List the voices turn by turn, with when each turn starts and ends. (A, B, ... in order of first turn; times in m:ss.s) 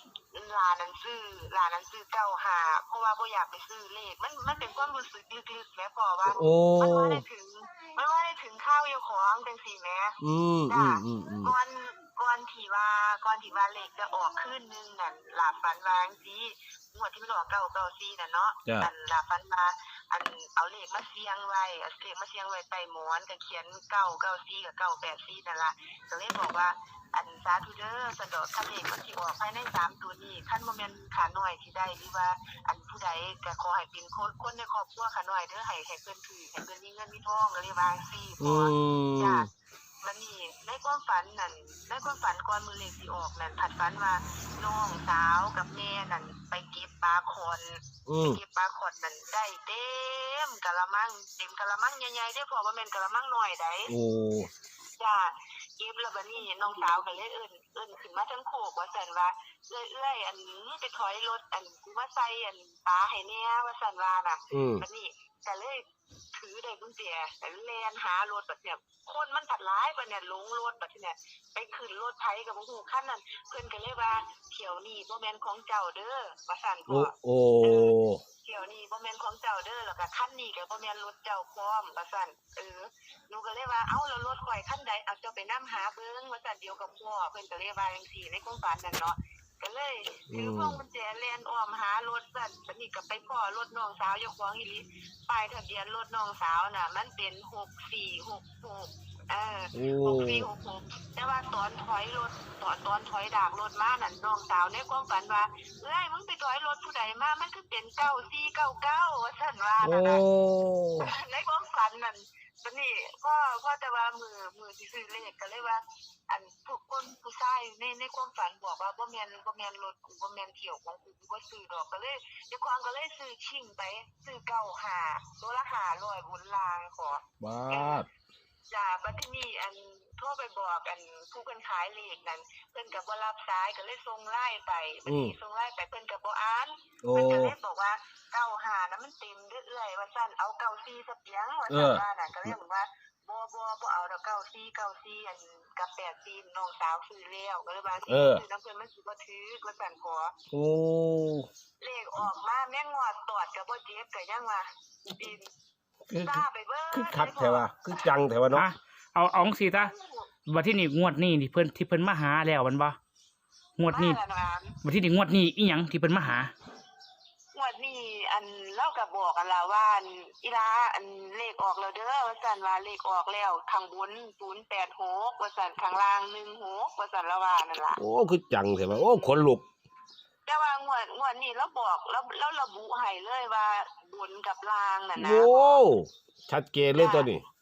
0:00.3-0:39.5 A
0:06.2-0:07.2 B
0:10.2-0:11.5 B
0:38.4-0:39.5 B
0:40.0-0:53.9 A
0:48.1-0:48.4 B
0:53.9-0:54.5 B
0:55.0-1:50.2 A
1:04.5-1:04.8 B
1:16.9-1:18.2 B
1:30.3-1:30.8 B
1:39.7-1:40.5 B
1:49.8-1:51.1 B
1:51.0-2:08.0 A
2:07.4-2:08.1 B
2:08.7-2:30.3 A
2:15.0-2:15.3 B
2:17.0-2:17.5 B
2:21.7-2:22.5 B
2:28.1-2:28.4 B
2:30.5-2:31.5 B
2:31.8-2:35.5 A
2:36.1-2:37.6 A
2:36.9-2:38.7 B
2:38.5-2:39.9 C
2:39.6-2:40.3 A
2:40.5-2:43.0 C
2:43.8-2:44.2 C
2:43.9-2:44.8 A
2:44.8-2:46.5 C
2:47.5-2:58.0 A
2:57.9-2:59.6 B
2:58.9-2:59.4 A
3:00.4-3:05.8 A
3:05.2-3:07.4 B
3:06.9-3:07.3 A